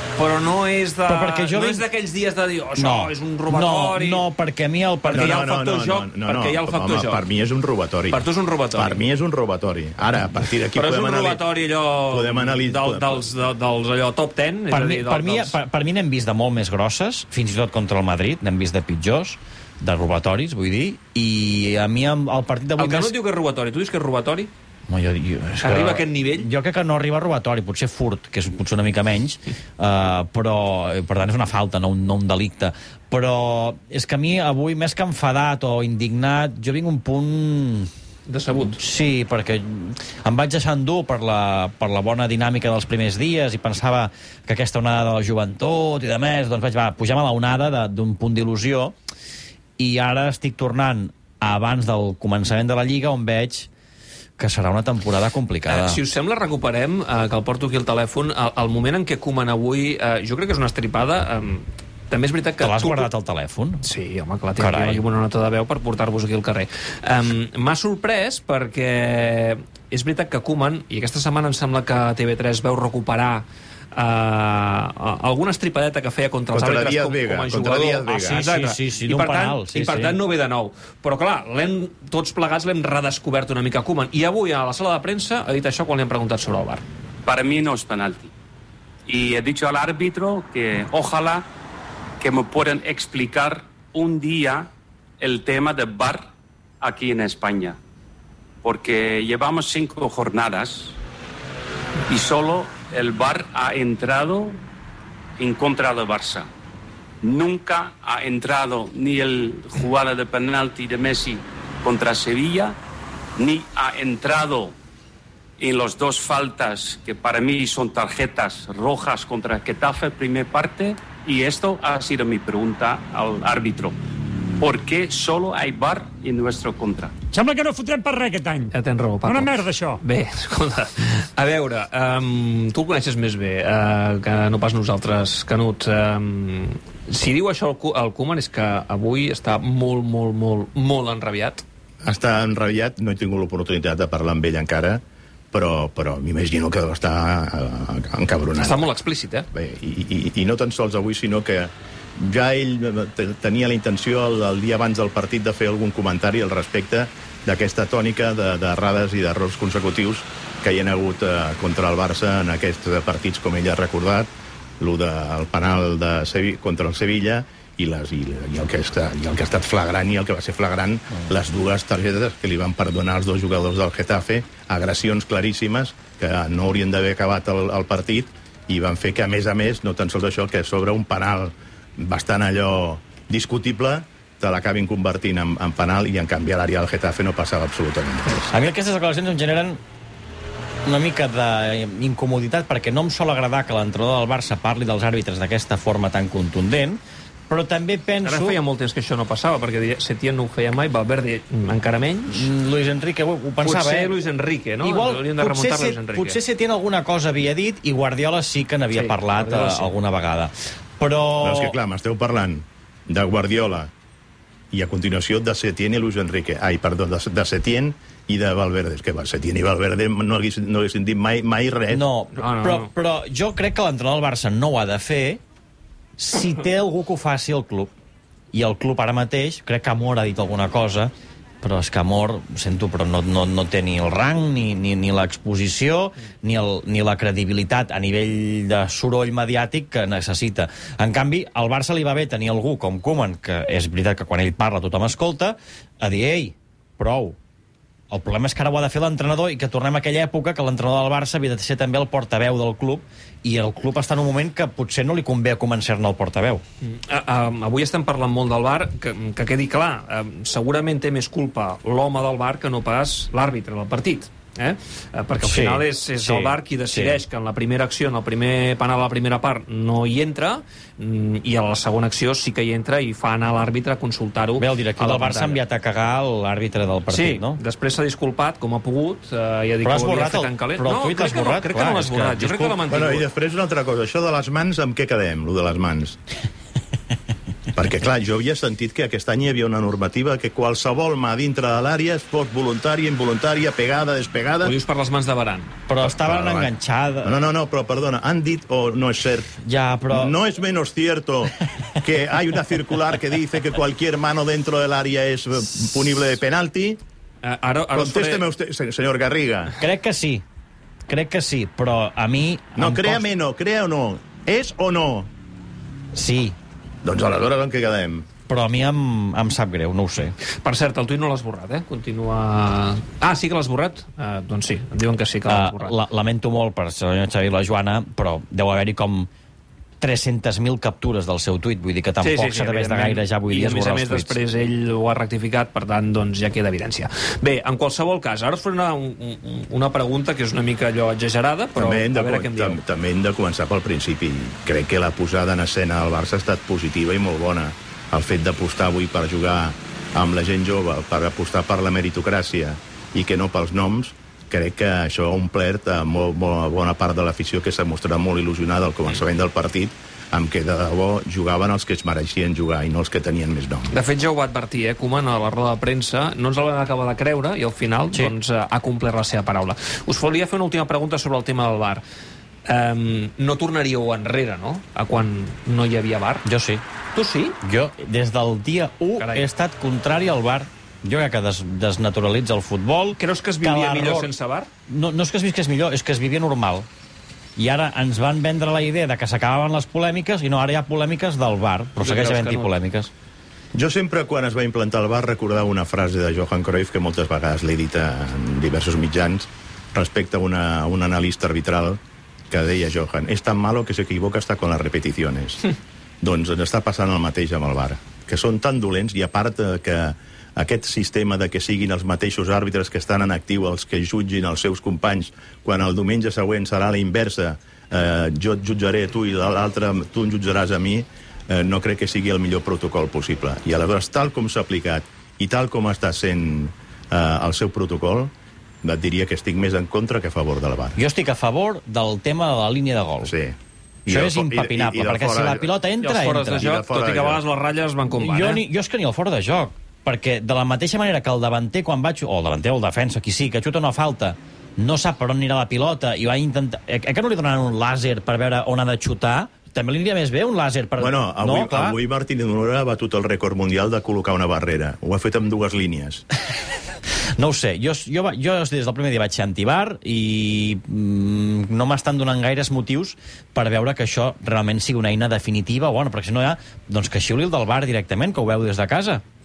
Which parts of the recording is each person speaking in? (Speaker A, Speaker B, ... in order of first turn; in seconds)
Speaker A: 0.2-4.2, 5.0-7.2, 8.1-9.0, 10.7-15.6, 22.8-24.5, 25.6-26.5, 38.3-38.8, 55.7-63.1, 63.8-86.8, 128.7-141.6, 148.6-149.4, 198.2-202.5, 203.6-206.4, 208.9-209.9, 222.3-222.9, 256.8-275.6, 277.1-283.2, 294.6-295.7, 307.4-308.4, 320.6-325.9, 332.2-342.8, 363.9-372.0, 372.7-376.4, 377.1-377.6, 379.2-379.5, 383.2-384.7, 392.0-392.7, 436.0-438.6
Speaker B: 1.1-1.8, 2.8-5.5, 14.7-23.1, 24.9-37.9, 38.7-48.9, 49.8-53.7, 54.4-56.0, 62.6-63.8, 64.6-65.0, 78.2-80.2, 188.5-189.8, 190.8-198.6, 202.3-204.1, 204.8-211.8, 221.9-225.4, 226.2-227.9, 228.5-231.1, 231.6-247.3, 248.1-256.6, 265.4-267.2, 274.6-277.6, 279.8-282.8, 295.9-297.4, 299.6-300.3, 309.7-310.4, 311.1-313.2, 316.1-316.6, 318.5-320.4, 325.4-329.3, 330.0-334.4, 376.4-376.8, 377.6-384.3, 384.9-386.9, 387.6-393.1, 430.9-433.3, 434.1-436.7, 438.2-452.0, 457.4-469.2
Speaker C: 5.1-11.4, 12.1-13.2, 76.5-78.4, 142.0-145.0, 145.5-148.9, 149.5-164.3, 164.8-188.5, 211.4-213.9, 214.7-222.0, 282.9-286.2, 287.7-294.7, 296.0-296.7, 297.2-299.6, 300.1-307.0, 307.9-309.7, 312.8-315.3, 317.0-318.3, 341.7-363.9, 393.7-402.0, 402.5-428.3, 428.8-431.0, 433.2-433.5, 434.1-435.7, 436.6-437.4, 451.0-456.2
Speaker D: 87.3-88.3, 89.1-91.4, 92.2-94.7, 95.2-96.2, 96.8-97.8, 98.6-100.9, 102.1-104.6, 105.4-106.5, 107.2-112.7, 113.4-114.7, 115.6-123.9, 124.6-127.1
Speaker E: 127.3-128.7, 129.2-130.0